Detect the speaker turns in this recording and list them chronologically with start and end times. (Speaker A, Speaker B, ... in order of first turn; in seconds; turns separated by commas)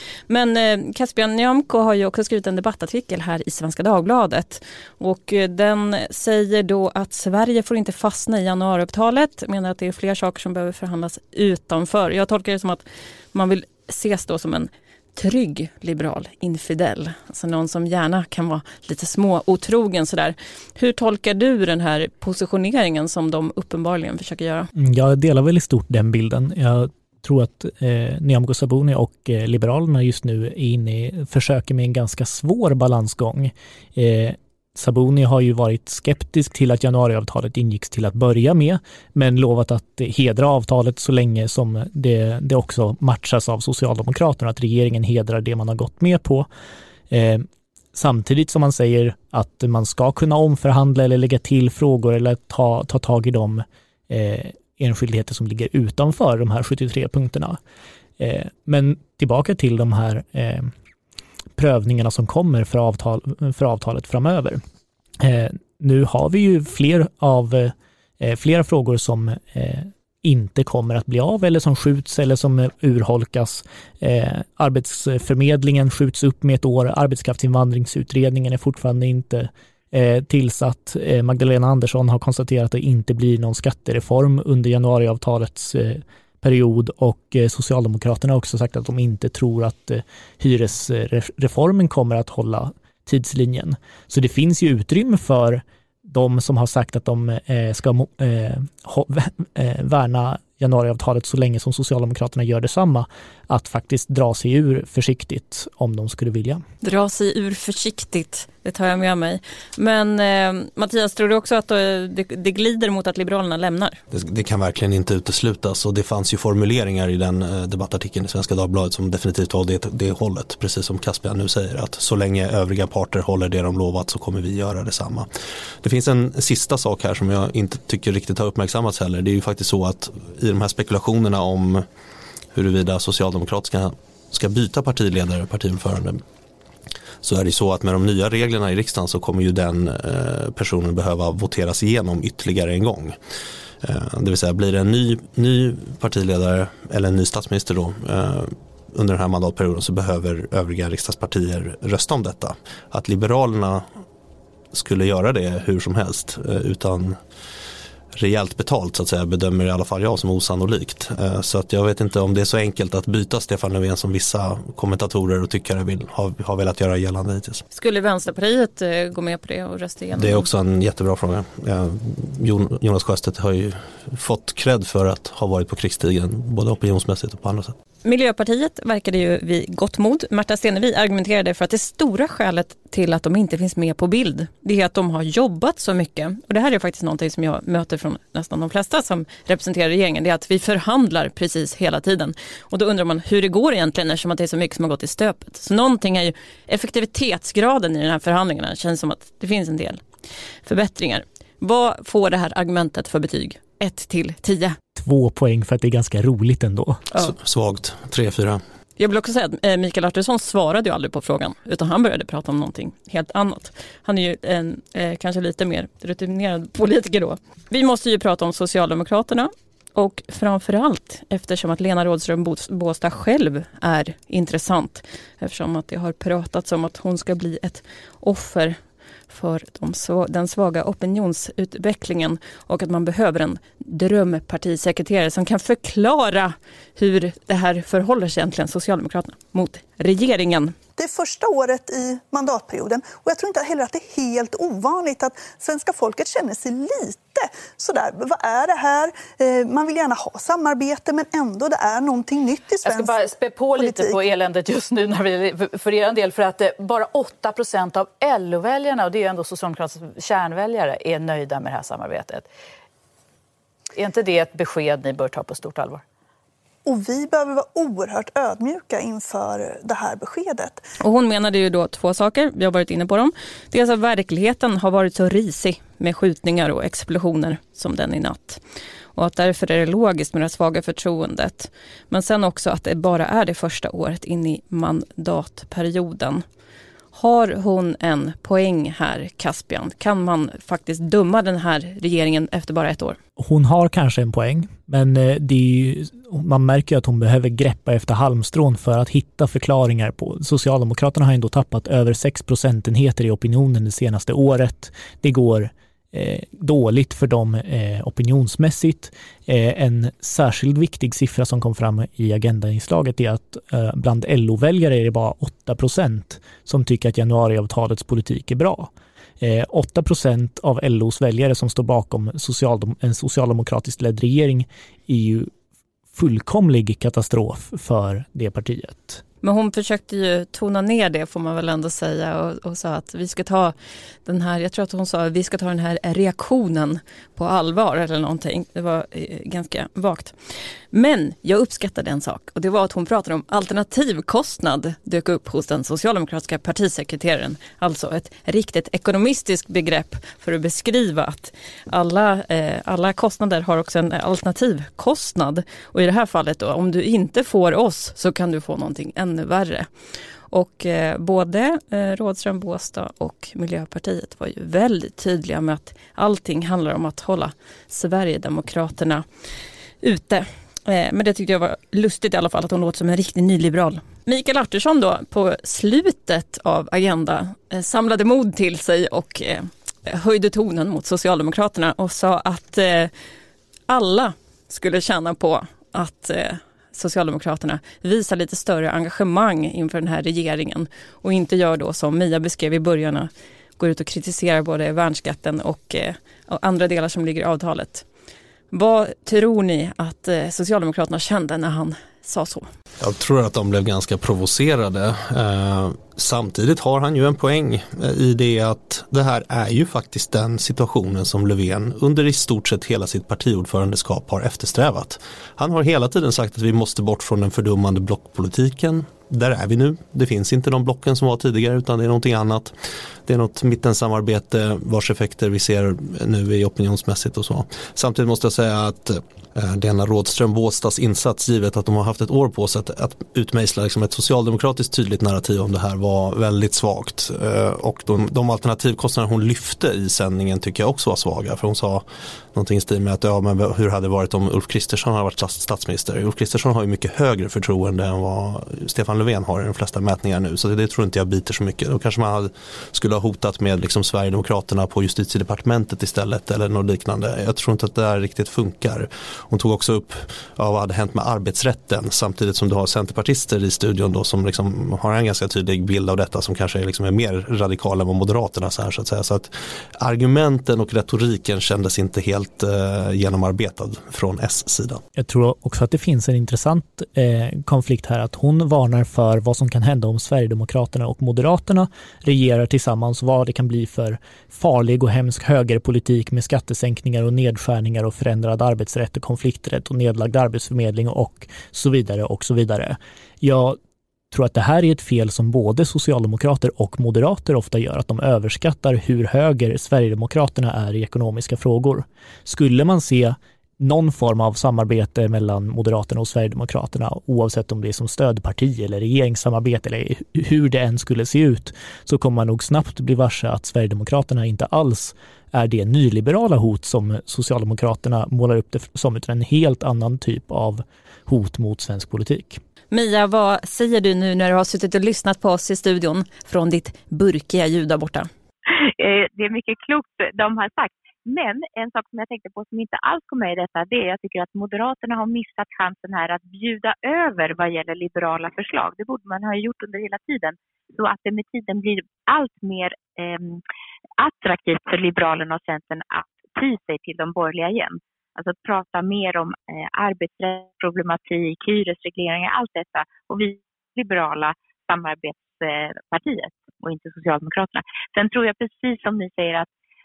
Speaker A: 0.3-24.7, Speaker B: 24.7-46.5, Speaker B: 47.1-57.6, Speaker B: 58.2-60.7, Speaker B: 61.6-64.6, Speaker B: 65.2-106.6, Speaker A: 106.8-114.0, Speaker C: 114.1-125.3, Speaker C: 125.8-131.8, Speaker C: 132.5-136.2, Speaker C: 137.2-143.2, Speaker C: 143.8-153.8, Speaker C: 154.7-157.2, Speaker C: 158.2-167.6, Speaker A: 167.7-170.5, Speaker C: 170.2-177.8, Speaker A: 178.0-200.0, Speaker A: 200.6-204.8, Speaker B: 204.9-207.1, Speaker C: 207.2-208.6, Speaker A: 209.0-228.8, Speaker A: 229.3-240.7, Speaker D: 241.0-253.2, Speaker E: 252.8-262.5, Speaker D: 253.7-254.2, Speaker E: 263.9-266.0, Speaker D: 266.8-270.8, Speaker A: 271.0-278.6, Speaker A: 279.1-286.4, Speaker A: 287.1-293.2, Speaker B: 293.4-325.5, Speaker B: 326.1-329.2, Speaker A: 329.4-340.3, Speaker A: 340.9-359.9, Speaker A: 360.5-369.2, Speaker A: 370.0-383.1, Speaker A: 383.9-398.0, Speaker A: 398.7-402.7, Speaker C: 403.0-475.0, Speaker B: 475.1-493.8, Speaker B: 494.3-522.6, Speaker A: 522.9-528.3, Speaker F: 528.7-543.6, Speaker F: 544.2-559.7